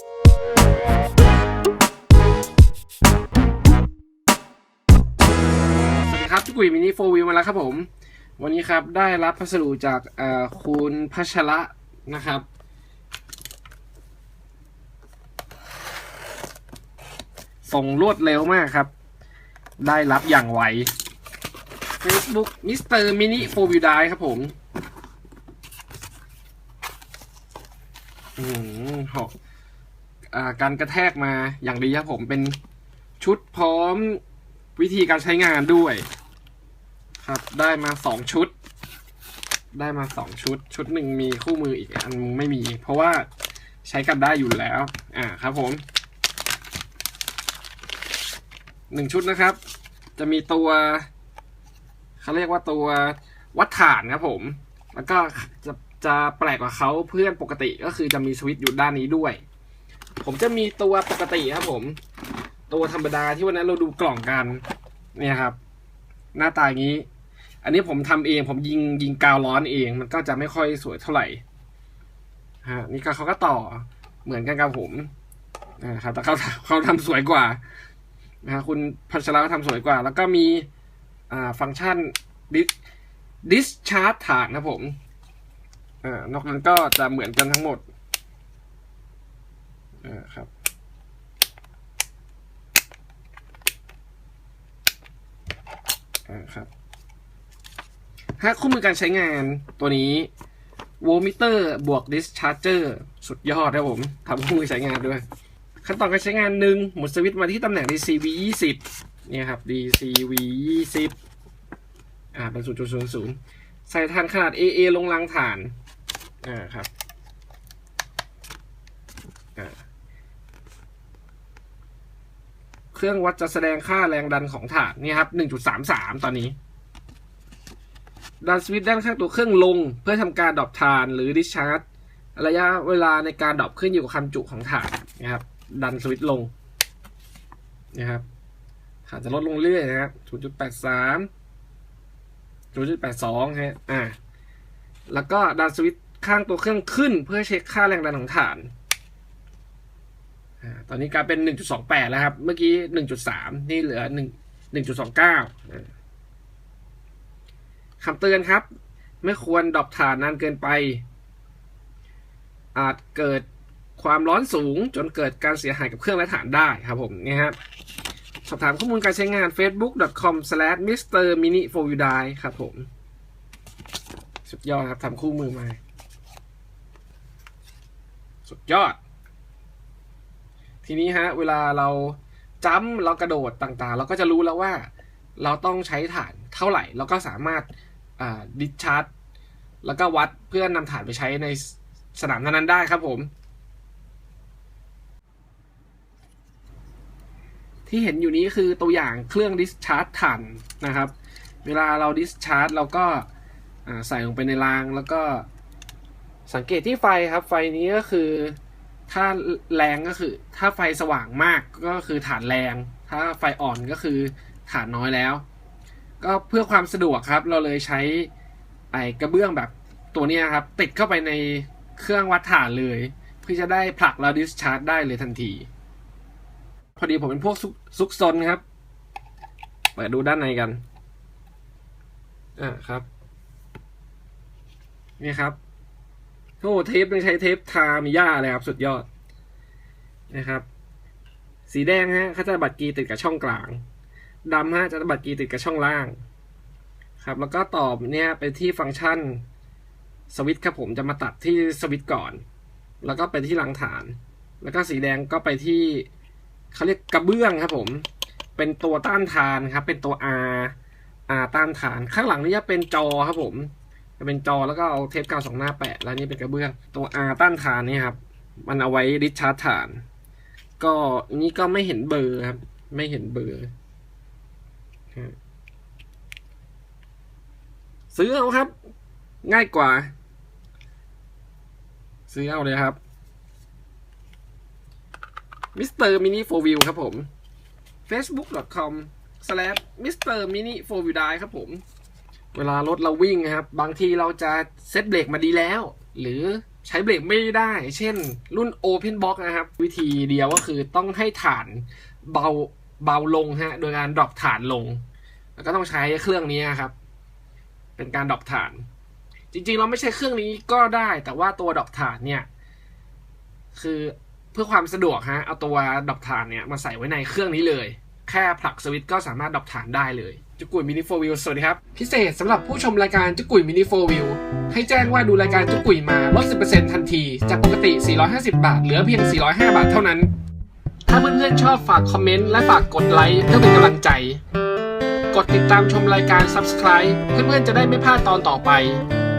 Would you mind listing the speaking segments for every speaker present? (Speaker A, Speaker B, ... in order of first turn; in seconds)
Speaker A: 6.1-7.9, 8.4-12.5, 17.6-18.9, 19.8-20.9, 22.0-24.5, 28.4-29.3, 30.3-32.6, 33.2-34.2, 34.8-36.1, 37.2-38.5, 39.7-43.3, 43.8-45.8, 48.9-49.6, 50.2-51.1, 52.2-59.4, 60.2-62.0, 62.7-64.6, 65.1-65.6, 66.3-67.0, 67.6-71.4, 72.6-75.1, 75.8-77.6, 78.4-80.7, 81.3-82.7, 83.4-85.0, 86.0-87.8, 90.0-90.5, 96.3-96.7, 98.4-100.3, 101.0-105.2, 105.8-111.2, 112.3-115.7, 116.4-116.9, 122.9-126.5, 128.4-131.8, 132.4-136.5, 137.9-138.2, 139.1-141.3, 142.7-144.2, 145.1-148.7, 150.6-155.9, 158.0-158.7, 159.2-161.0, 162.7-163.5, 164.0-167.6, 168.4-172.9, 174.5-175.8, 178.4-179.0, 180.8-189.1, 189.8-193.3, 197.9-203.3, 203.9-205.5, 206.5-208.6, 209.1-215.4, 216.2-218.3, 218.9-225.7, 227.0-228.6, 230.0-230.8, 232.6-233.1, 235.2-235.6, 236.6-239.1, 240.3-240.7, 241.7-243.8, 244.4-246.2, 247.2-249.4, 250.3-252.4, 253.0-256.1, 256.7-260.8, 261.3-270.1, 270.8-273.7, 278.1-278.7, 279.4-280.1, 282.3-283.0, 285.8-287.3, 288.1-291.8, 292.5-305.0, 305.6-306.9, 308.0-308.9, 309.5-312.5, 313.7-330.3, 331.1-334.4, 335.3-339.0